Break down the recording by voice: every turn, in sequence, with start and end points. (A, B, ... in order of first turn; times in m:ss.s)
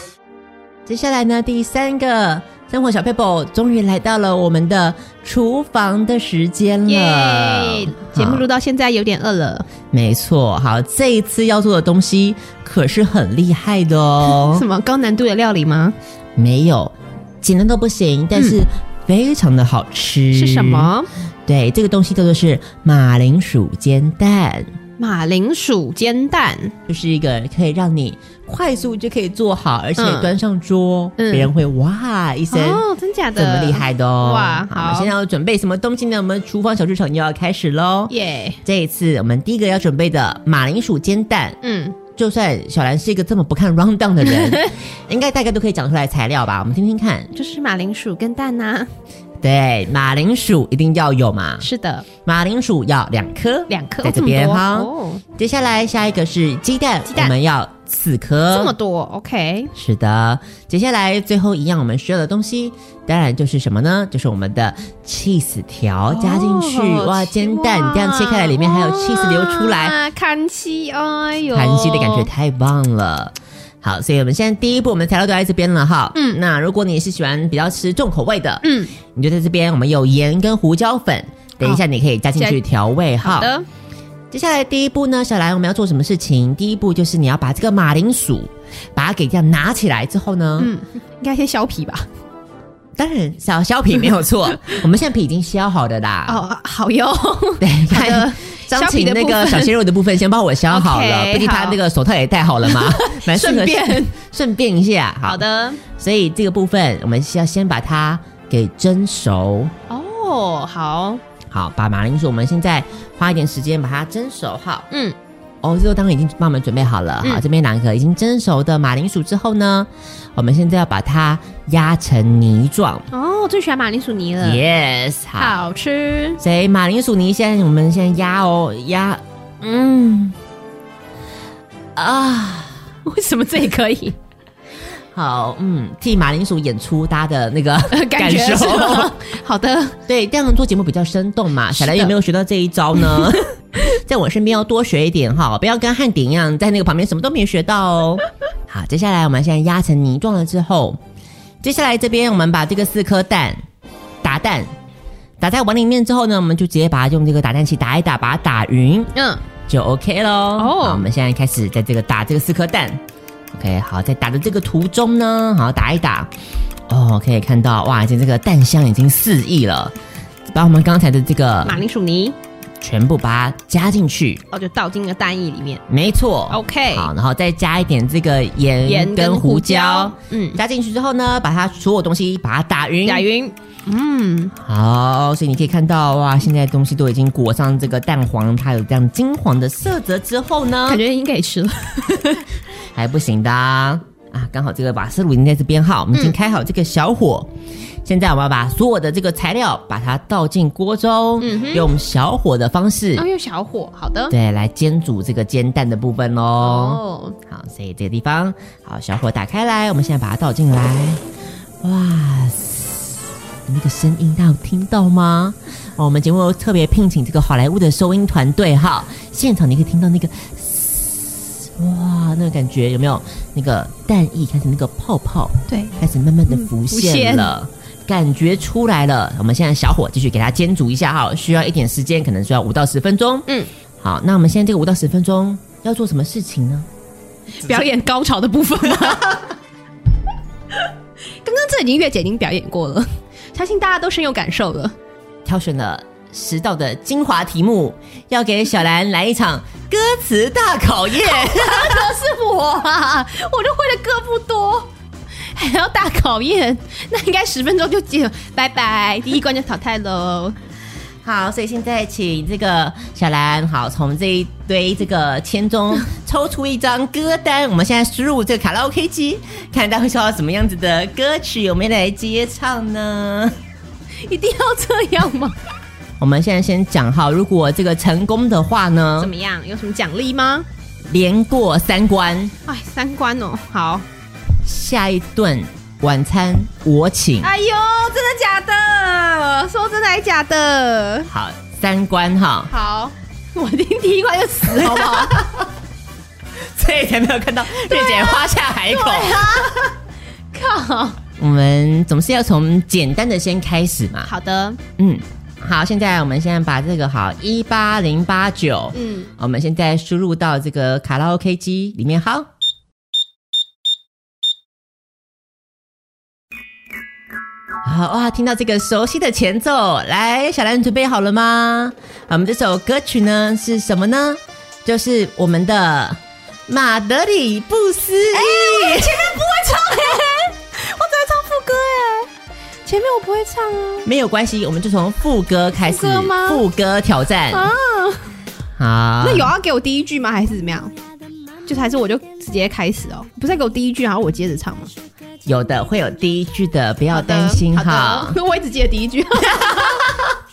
0:00.8-0:08.4 A
0:06.9-0:09.6 B
0:09.9-0:14.6 A
0:14.2-0:15.9 B
0:16.4-0:20.9 A
0:20.3-0:21.1 B
0:21.4-0:24.7 A
0:25.0-0:26.7 B
0:26.9-0:32.8 A
0:30.0-0:30.3 B
0:31.2-0:31.5 B
0:32.5-0:35.1 B
0:33.4-0:41.6 A
0:38.1-0:38.6 B
0:41.6-0:42.0 B
0:42.1-0:47.3 A
0:44.3-0:44.7 B
0:47.3-0:48.9 B
0:49.4-0:51.7 A
0:51.6-0:52.0 B
0:52.2-0:58.7 A
0:53.7-0:55.2 B
0:57.1-0:57.3 B
0:58.5-0:59.7 B
0:59.7-1:10.0 A
1:06.1-1:12.3 B
1:11.5-1:23.5 A
1:16.1-1:16.4 B
1:18.6-1:18.9 B
1:23.2-1:23.6 B
1:24.3-1:30.7 A
1:30.6-1:32.1 B
1:33.0-1:36.4 A
1:36.2-1:39.7 B
1:37.6-1:49.7 A
1:40.7-1:41.8 B
1:42.6-1:44.1 B
1:45.2-1:45.8 B
1:49.9-1:51.2 B
1:51.5-1:54.8 A
1:54.9-1:55.2 B
1:55.6-2:03.1 A
2:03.1-2:04.6 B
2:04.4-2:05.6 A
2:05.4-2:06.4 B
2:06.4-2:10.4 A
2:12.0-2:12.8 A
2:13.0-2:14.2 B
2:15.1-2:19.1 A
2:17.9-2:20.0 B
2:20.1-2:31.0 A
2:21.8-2:22.1 B
2:31.6-2:33.6 A
2:34.2-2:34.7 A
2:35.4-2:39.1 A
2:39.1-2:39.4 B
2:39.7-2:43.0 A
2:40.6-2:41.1 B
2:43.5-2:46.3 A
2:46.9-2:49.9 A
2:50.5-2:51.8 A
2:51.6-2:52.4 B
2:52.8-2:54.4 A
2:54.5-2:55.8 B
2:55.9-3:03.2 A
2:56.5-2:57.1 B
2:58.8-3:00.6 B
3:03.0-3:04.5 B
3:04.5-3:11.0 A
3:10.9-3:12.4 B
3:12.9-3:17.5 A
3:18.0-3:23.2 A
3:21.4-3:21.9 B
3:23.2-3:24.3 B
3:24.3-3:31.2 A
3:26.6-3:27.4 B
3:31.8-3:53.5 A
3:45.7-3:45.9 B
3:46.5-3:47.5 B
3:54.0-3:56.9 A
3:57.6-3:59.4 B
4:01.4-4:04.9 B
4:05.4-4:12.1 A
4:11.2-4:14.9 B
4:15.5-4:20.6 B
4:21.2-4:33.6 A
4:34.2-4:35.6 B
4:36.2-4:39.3 A
4:39.2-4:40.6 B
4:41.0-4:42.5 A
4:42.7-4:44.0 B
4:44.6-4:47.5 A
4:47.4-4:51.3 B
4:51.3-4:52.7 A
4:52.7-4:55.4 B
4:54.8-4:55.7 A
4:56.6-4:59.7 A
4:57.9-4:59.9 B
5:00.5-5:01.2 B
5:01.4-5:04.3 A
5:04.2-5:04.8 B
5:05.0-5:12.5 A
5:08.9-5:09.3 B
5:17.8-5:29.4 A
5:28.3-5:32.3 B
5:32.8-5:34.1 B
5:34.0-5:37.7 A
5:35.8-5:36.6 B
5:37.5-5:38.2 B
5:38.8-5:39.5 A
5:39.2-5:40.9 B
5:41.6-5:44.9 B
5:45.4-5:48.4 A
5:47.1-5:50.2 B